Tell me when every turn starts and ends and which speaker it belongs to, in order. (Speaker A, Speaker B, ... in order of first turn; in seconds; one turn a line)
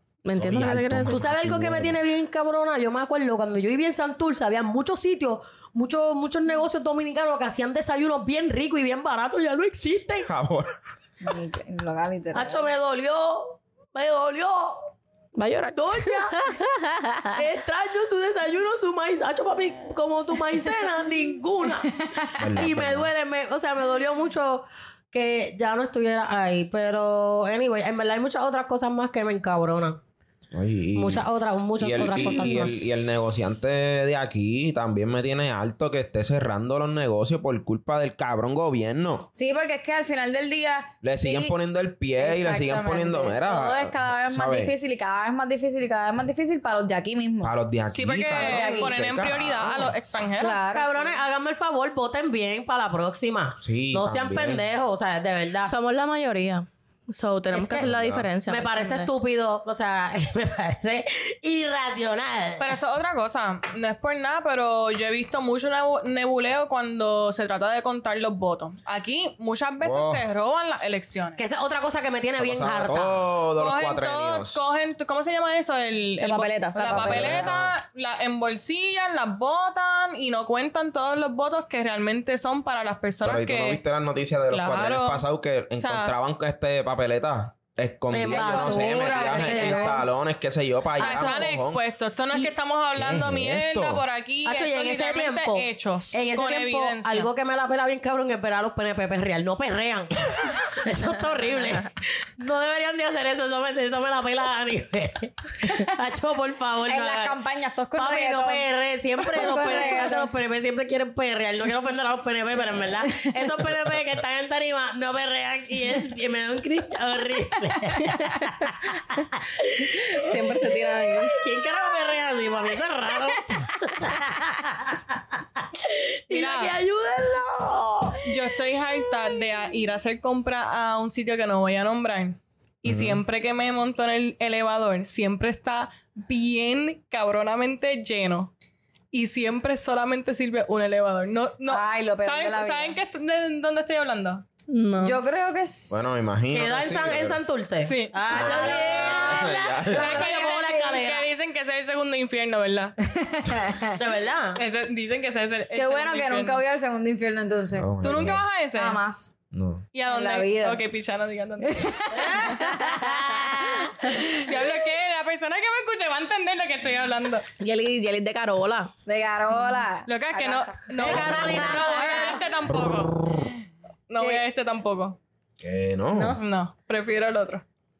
Speaker A: 0.2-1.3
Speaker B: 0.3-2.0
Speaker C: 1.1-10.3
Speaker B: 10.2-10.8
Speaker D: 11.2-12.7
Speaker C: 12.3-14.9
Speaker A: 15.3-17.4
Speaker C: 15.7-16.4
Speaker C: 17.3-30.0
Speaker B: 22.4-23.1
Speaker B: 30.5-31.3
Speaker C: 30.9-32.9
Speaker B: 31.8-39.3
Speaker D: 39.3-41.5
Speaker B: 41.0-44.7
Speaker D: 42.1-47.5
Speaker B: 47.4-49.9
Speaker E: 47.9-50.6
Speaker C: 48.4-48.9
Speaker D: 50.4-51.2
Speaker C: 50.6-55.7
Speaker B: 53.6-54.6
Speaker A: 55.6-59.1
Speaker C: 57.5-57.9
Speaker B: 57.7-58.3
Speaker C: 58.5-62.8
Speaker E: 62.6-71.4
Speaker B: 69.8-70.2
Speaker C: 71.4-73.3
Speaker B: 72.4-74.7
Speaker E: 73.6-83.8
Speaker A: 76.2-77.0
Speaker D: 76.6-77.5
Speaker B: 76.9-77.8
Speaker B: 83.2-91.8
Speaker E: 84.5-85.2
Speaker E: 85.8-86.1
Speaker C: 88.1-90.0
Speaker D: 88.3-90.0
Speaker C: 91.0-91.5
Speaker E: 91.0-97.3
Speaker B: 92.9-94.0
Speaker C: 94.5-107.4
Speaker D: 106.8-108.7
Speaker C: 108.0-120.4
Speaker D: 109.2-110.3
Speaker A: 120.1-121.3
Speaker C: 121.3-128.3
Speaker E: 126.3-126.8
Speaker E: 128.2-138.5
Speaker B: 132.8-133.2
Speaker E: 139.1-144.4
Speaker D: 141.7-143.0
Speaker A: 144.7-145.2
Speaker D: 145.0-146.3
Speaker B: 145.9-147.4
Speaker C: 146.5-151.3
Speaker E: 147.8-152.9
Speaker B: 148.3-150.3
Speaker D: 149.9-151.0
Speaker D: 153.1-154.0
Speaker C: 154.0-154.6
Speaker E: 154.6-156.6
Speaker D: 155.7-157.9
Speaker B: 157.8-158.4
Speaker E: 158.0-159.0
Speaker D: 158.8-159.3
Speaker B: 159.5-159.8
Speaker E: 159.9-162.2
Speaker D: 160.1-160.8
Speaker D: 161.6-164.7
Speaker C: 162.2-164.1
Speaker E: 164.1-167.4
Speaker A: 167.6-168.9
Speaker D: 169.1-172.4
Speaker E: 170.1-173.3
Speaker C: 171.0-172.4
Speaker B: 172.7-173.5
Speaker E: 174.1-175.2
Speaker B: 175.6-176.4
Speaker A: 176.1-176.4
Speaker E: 176.4-177.6